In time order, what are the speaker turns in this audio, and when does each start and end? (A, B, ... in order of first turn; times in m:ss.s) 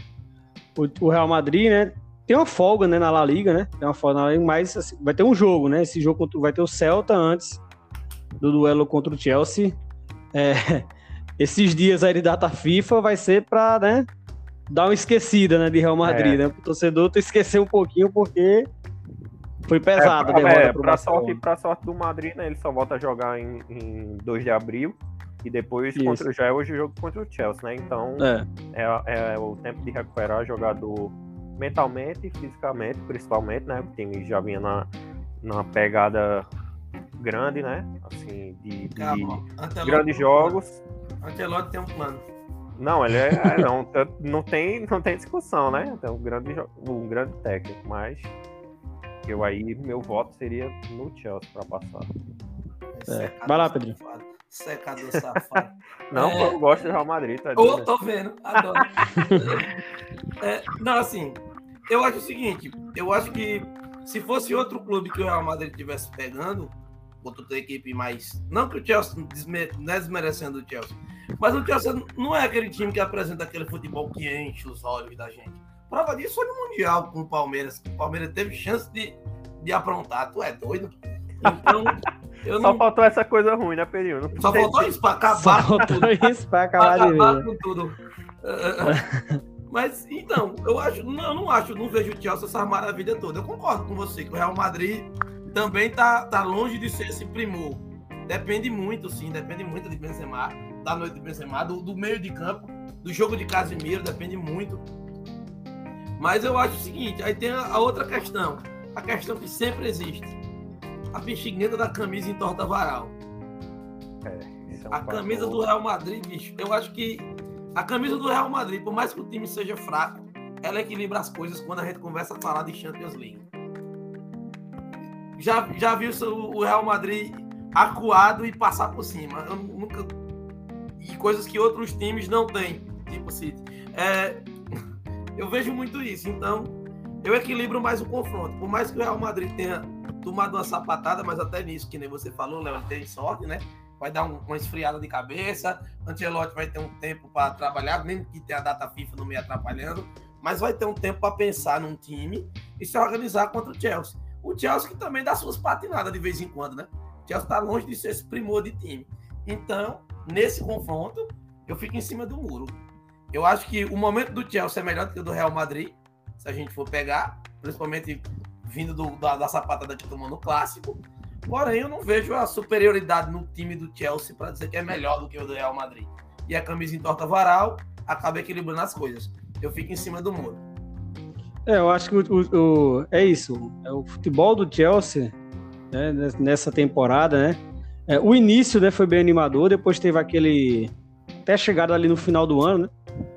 0:00.8-0:07.6 A
0:08.4-0:09.8 A
0:10.3-0:14.1 A
0:14.7-0:18.7 A
0:16.0-0:16.4 B
0:19.7-0:21.4 A
0:20.0-0:34.9 B
0:26.0-0:26.2 A
0:28.2-0:28.5 A
0:35.4-0:36.5 B
0:37.2-0:40.8 B
0:39.0-0:40.6 C
0:41.2-0:42.2 C
0:42.8-0:48.3 B
0:49.3-0:52.1 B
0:52.9-0:56.7 C
0:53.1-0:54.0 A
0:55.2-0:57.9 B
0:57.6-0:59.7 C
0:58.6-0:59.4 B
0:59.1-0:59.4 A
1:00.4-1:22.8 C
1:21.5-1:21.9 B
1:22.6-1:25.0 B
1:24.4-1:29.0 C
1:25.3-1:27.5 A
1:28.8-1:29.4 A
1:29.7-1:44.8 C
1:46.2-1:50.4 C
1:51.1-1:53.2 C
1:54.2-1:55.7 B
1:54.9-2:03.5 C
2:05.4-2:10.1 C
2:11.0-2:14.5 C
2:15.4-2:42.8 C
2:43.3-3:00.6 C
3:01.7-3:05.4 A
3:05.9-3:10.9 A
3:11.5-3:12.9 A